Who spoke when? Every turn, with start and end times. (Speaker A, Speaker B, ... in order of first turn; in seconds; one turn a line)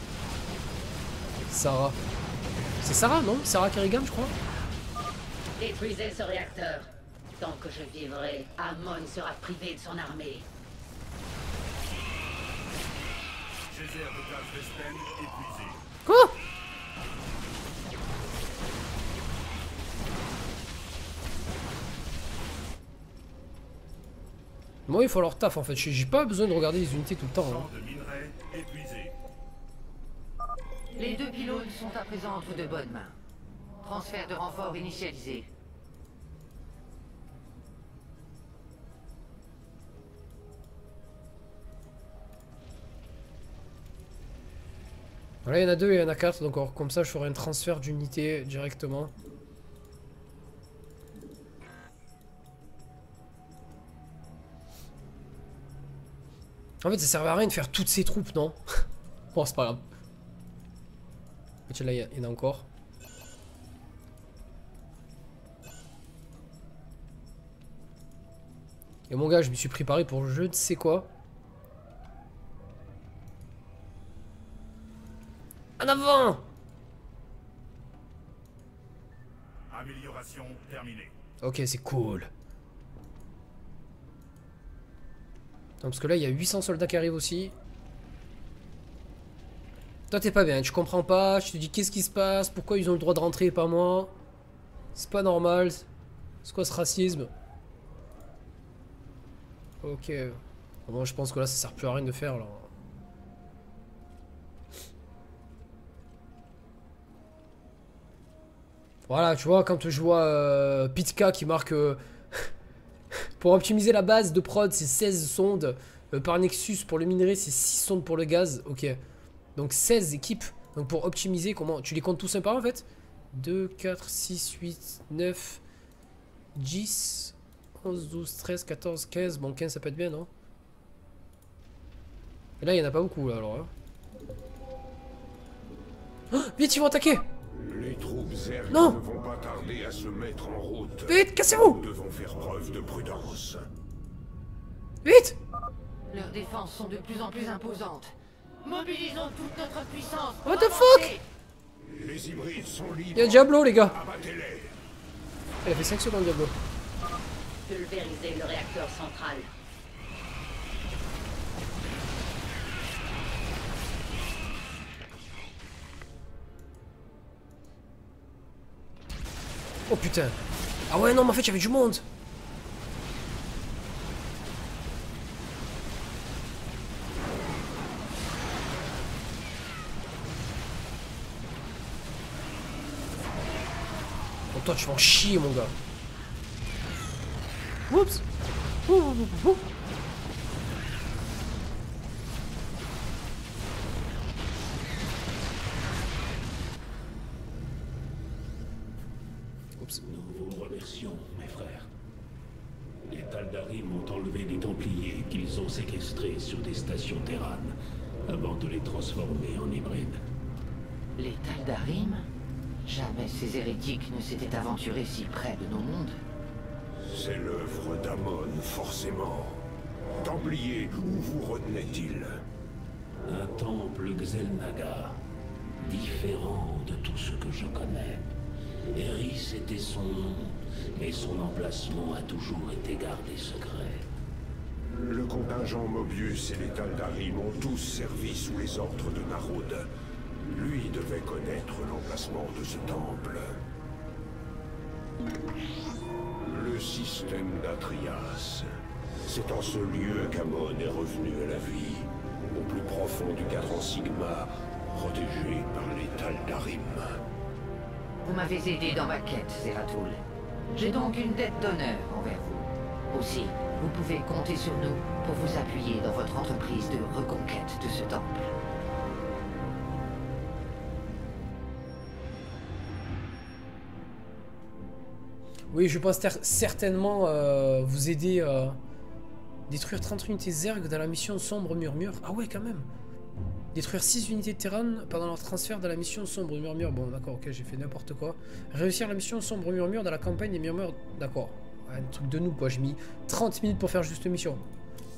Speaker A: 1.5-2.0
Speaker A: 2.8-4.3
Speaker B: 5.6-10.4
Speaker C: 13.7-15.8
Speaker A: 16.1-16.3
Speaker A: 24.9-27.7
Speaker C: 27.4-29.1
Speaker D: 31.0-33.2
Speaker D: 33.8-35.5
Speaker A: 45.5-49.1
Speaker A: 56.8-59.8
Speaker A: 61.7-62.7
Speaker A: 69.1-71.1
Speaker A: 75.8-76.4
Speaker C: 79.7-81.1
Speaker A: 81.4-82.3
Speaker A: 85.8-87.5
Speaker A: 90.1-94.1
Speaker A: 95.0-95.9
Speaker A: 96.4-97.3
Speaker A: 99.8-102.7
Speaker A: 109.1-112.5
Speaker A: 113.4-119.0
Speaker A: 119.5-125.6
Speaker A: 126.6-130.3
Speaker A: 132.6-133.7
Speaker A: 136.3-137.2
Speaker E: 137.5-143.7
Speaker A: 138.7-139.0
Speaker A: 141.1-141.8
Speaker A: 145.0-145.4
Speaker D: 146.1-151.2
Speaker A: 150.4-151.2
Speaker E: 151.9-154.8
Speaker A: 153.1-154.0
Speaker A: 155.6-156.6
Speaker B: 157.7-159.5
Speaker A: 169.9-170.4
Speaker A: 170.9-172.1
Speaker A: 184.5-185.7
Speaker A: 187.9-188.2
Speaker A: 188.9-189.6
Speaker A: 199.8-200.0
Speaker F: 200.0-201.9
Speaker F: 203.1-210.2
Speaker D: 211.2-212.3
Speaker D: 212.9-216.2
Speaker E: 217.0-222.5
Speaker F: 223.2-225.2
Speaker F: 225.8-228.3
Speaker F: 228.9-234.1
Speaker E: 234.9-239.9
Speaker E: 240.4-243.6
Speaker E: 246.3-248.7
Speaker E: 249.2-257.2
Speaker D: 258.2-260.2
Speaker D: 260.7-268.5
Speaker A: 275.7-278.8
Speaker A: 279.7-282.9
Speaker A: 283.7-294.6